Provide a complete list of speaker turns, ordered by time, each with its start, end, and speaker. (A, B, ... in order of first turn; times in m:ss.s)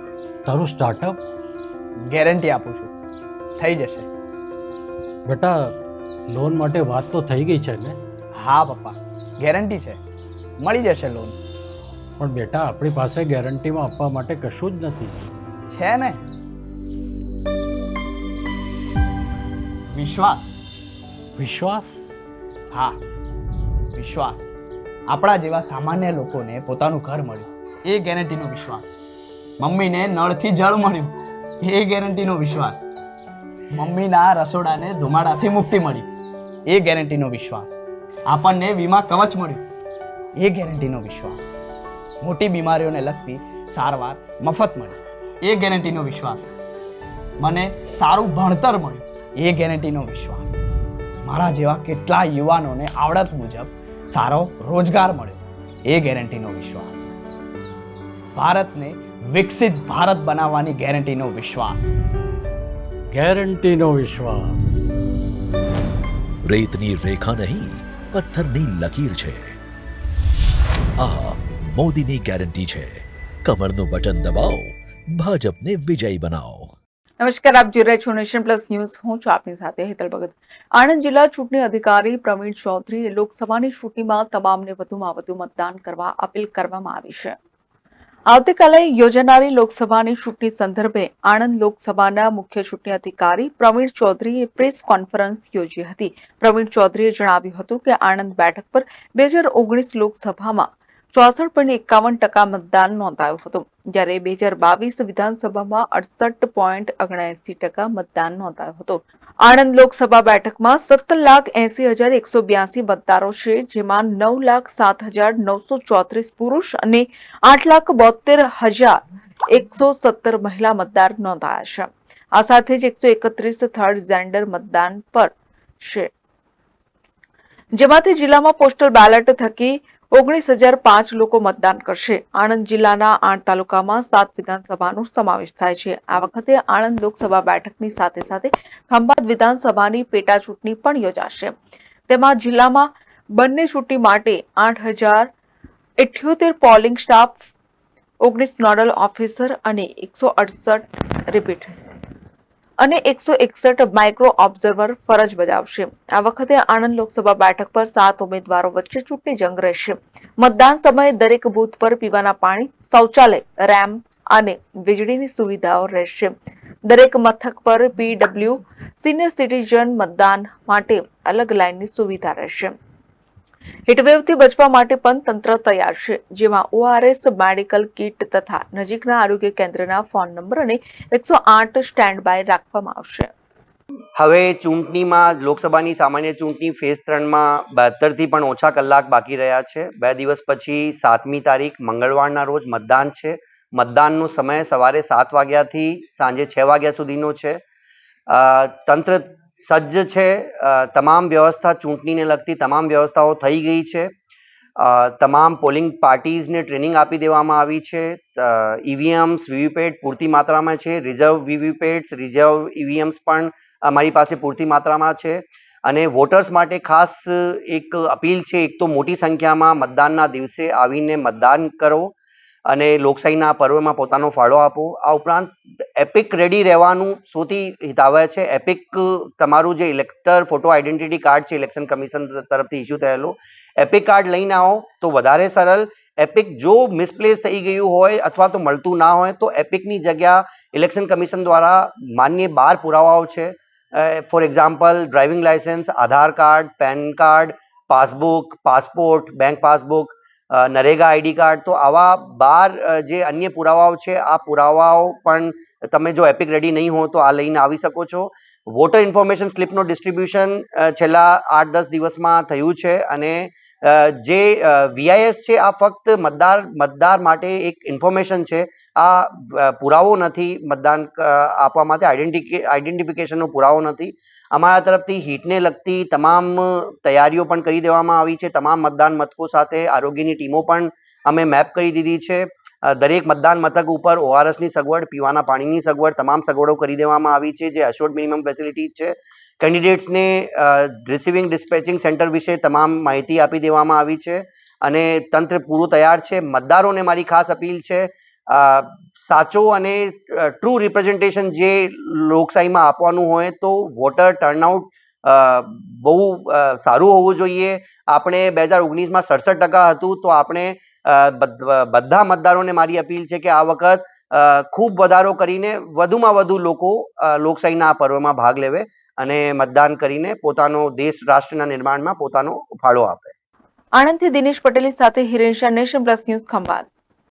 0:00.4-0:01.2 A
0:02.1-0:02.9 B
0:03.6-0:04.1 B
0:05.2-0:05.7 A
0:06.3-0:08.0 A
0:08.4-0:10.0 B
0:10.6-0:11.4 B
0:12.2-0:15.2 A
0:15.7-0:16.2 B
0:19.9-0:20.5 B
0:21.4-0:22.1 A
0:22.7-0:23.0 B
0:23.9-0:24.5 B
0:25.1-0:28.9 B
0:29.6-0:32.9 B
0:33.7-0:36.1 B
0:36.7-0:39.6 B
0:40.4-0:41.5 B
0:42.2-0:46.5 B
0:47.4-0:50.6 B
0:51.2-0:57.0 B
0:58.4-1:02.0 B
1:03.1-1:04.7 A
1:06.4-1:09.6 C
1:11.0-1:16.7 C
1:17.2-1:27.4 D
1:28.3-1:59.0 D
1:59.5-2:06.1 D
2:07.8-2:21.5 D
2:22.1-2:25.3 D
2:26.0-2:27.4 D
2:28.2-2:31.7 D
2:32.8-2:46.3 D
2:46.8-2:52.7 D
2:53.9-3:03.3 D
3:04.2-3:17.6 E
3:18.3-3:24.1 E
3:24.8-3:42.1 E
3:42.7-5:23.3 E
5:24.0-5:26.9 D